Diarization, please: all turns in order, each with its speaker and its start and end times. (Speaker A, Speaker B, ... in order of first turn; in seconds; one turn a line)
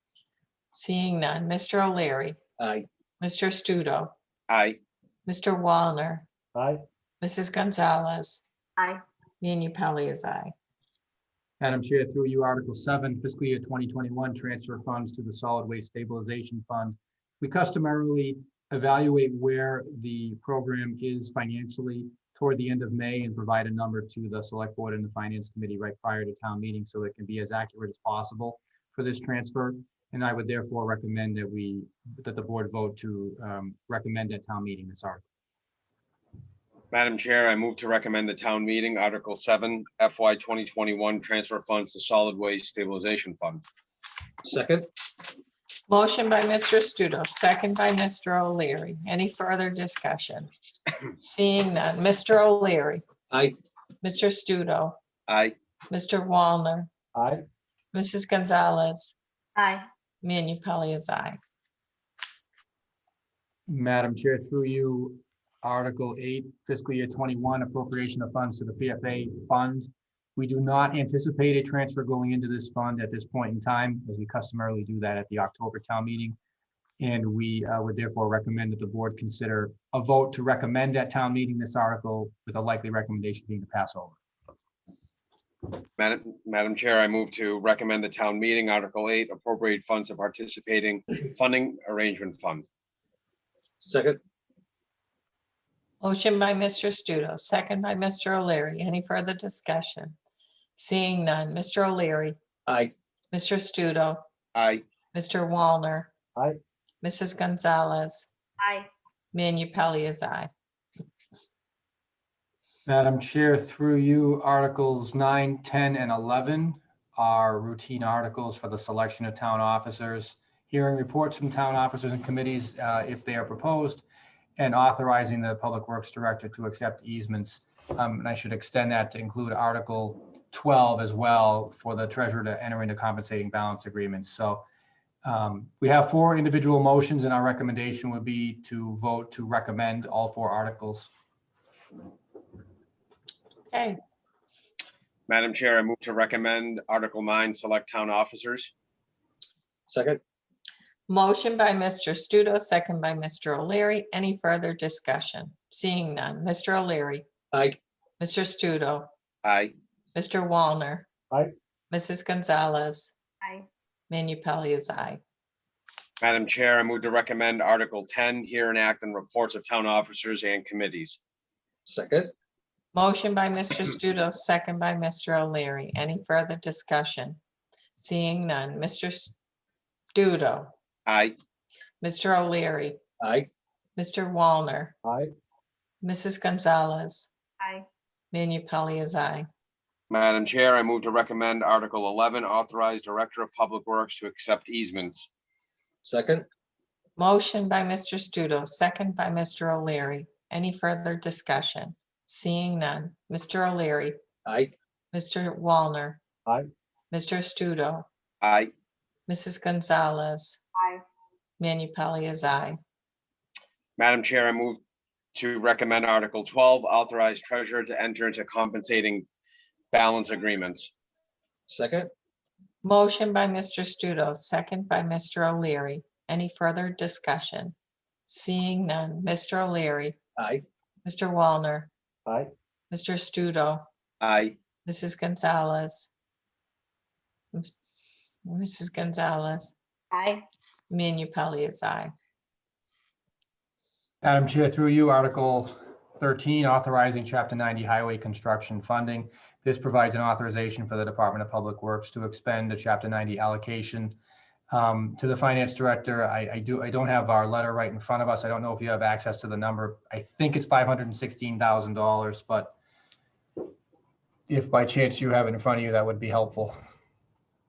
Speaker A: 0.7-2.4
Speaker B: 2.6-2.8
Speaker A: 3.2-4.1
Speaker C: 4.5-4.8
Speaker A: 5.2-6.3
Speaker D: 6.5-6.8
Speaker A: 7.2-8.4
Speaker E: 8.8-9.0
Speaker A: 9.4-10.5
Speaker D: 11.6-35.2
Speaker C: 36.9-43.6
Speaker B: 44.4-44.9
Speaker A: 45.9-50.5
Speaker A: 51.2-53.0
Speaker A: 54.0-55.0
Speaker C: 55.3-55.5
Speaker A: 55.9-56.9
Speaker D: 57.1-57.4
Speaker A: 57.9-59.1
Speaker E: 59.5-59.9
Speaker A: 60.2-61.4
Speaker D: 63.7-76.3
Speaker D: 77.0-84.2
Speaker C: 86.0-92.6
Speaker B: 93.8-94.2
Speaker A: 96.0-100.2
Speaker A: 100.8-102.4
Speaker B: 102.7-102.9
Speaker A: 103.3-104.2
Speaker C: 104.5-104.8
Speaker A: 105.1-106.1
Speaker A: 107.0-108.3
Speaker E: 108.6-108.9
Speaker A: 109.3-110.5
Speaker D: 112.8-124.0
Speaker D: 124.6-134.6
Speaker D: 135.2-141.1
Speaker A: 143.7-144.0
Speaker C: 145.3-148.7
Speaker B: 149.9-150.2
Speaker A: 151.1-157.2
Speaker B: 157.5-157.8
Speaker A: 158.2-159.1
Speaker C: 159.4-159.7
Speaker A: 160.1-161.1
Speaker A: 161.9-163.1
Speaker E: 163.4-163.7
Speaker A: 164.1-165.2
Speaker C: 166.2-171.2
Speaker B: 171.9-172.3
Speaker A: 172.9-177.4
Speaker A: 177.9-179.4
Speaker A: 180.1-180.7
Speaker C: 181.1-181.3
Speaker A: 182.0-183.0
Speaker B: 183.2-183.5
Speaker A: 183.9-184.9
Speaker D: 185.0-185.3
Speaker A: 186.0-187.3
Speaker E: 187.6-187.8
Speaker A: 188.3-189.5
Speaker C: 190.1-195.3
Speaker B: 196.0-196.4
Speaker A: 197.2-204.2
Speaker B: 204.4-204.7
Speaker A: 205.1-206.2
Speaker A: 207.1-208.1
Speaker C: 208.4-208.7
Speaker A: 209.3-210.6
Speaker E: 210.8-211.0
Speaker A: 211.6-212.8
Speaker C: 214.0-214.8
Speaker C: 215.3-219.3
Speaker C: 219.9-220.9
Speaker B: 221.7-222.1
Speaker A: 222.8-227.7
Speaker A: 228.3-230.2
Speaker B: 230.4-230.6
Speaker A: 231.0-231.9
Speaker A: 232.9-233.8
Speaker C: 234.2-234.6
Speaker A: 234.8-236.1
Speaker A: 238.4-239.7
Speaker E: 240.1-240.4
Speaker A: 240.9-242.1
Speaker D: 244.2-254.1
Speaker D: 254.7-262.7
Speaker D: 264.5-266.8